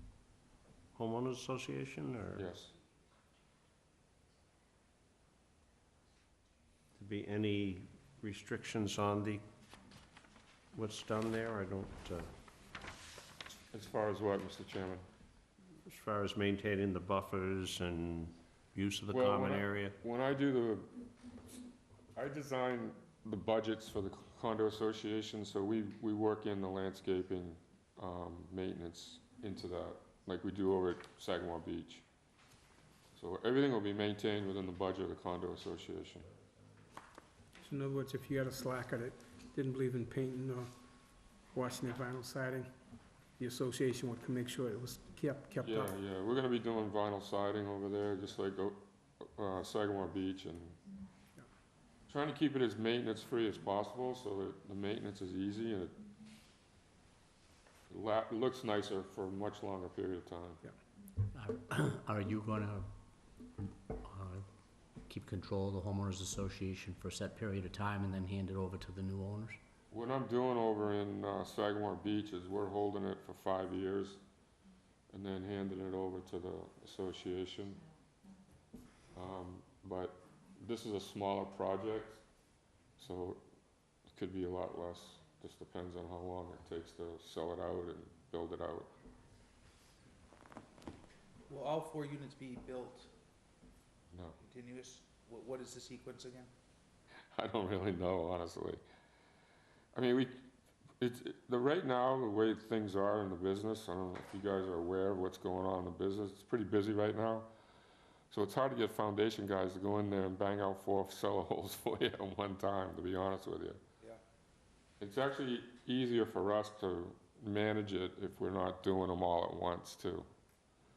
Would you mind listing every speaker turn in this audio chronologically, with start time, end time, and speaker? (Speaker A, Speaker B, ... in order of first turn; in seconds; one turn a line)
Speaker A: 0.9-2.5
Speaker B: 2.3-2.7
Speaker A: 7.0-9.4
Speaker A: 10.7-12.3
Speaker B: 13.7-15.0
Speaker A: 15.8-19.9
Speaker B: 19.1-20.9
Speaker B: 22.1-32.0
Speaker B: 33.1-36.3
Speaker C: 37.6-40.7
Speaker C: 41.5-42.7
Speaker C: 43.4-45.9
Speaker B: 45.6-50.8
Speaker B: 52.1-56.0
Speaker B: 57.9-60.6
Speaker D: 61.3-62.9
Speaker D: 64.0-64.5
Speaker D: 65.1-69.6
Speaker B: 69.9-74.2
Speaker B: 75.1-77.8
Speaker B: 79.1-82.2
Speaker B: 83.0-83.4
Speaker B: 84.1-88.9
Speaker E: 91.5-93.1
Speaker E: 94.4-96.5
Speaker B: 97.3-98.8
Speaker B: 99.9-100.5
Speaker B: 101.0-107.5
Speaker B: 108.3-113.8
Speaker B: 115.0-120.3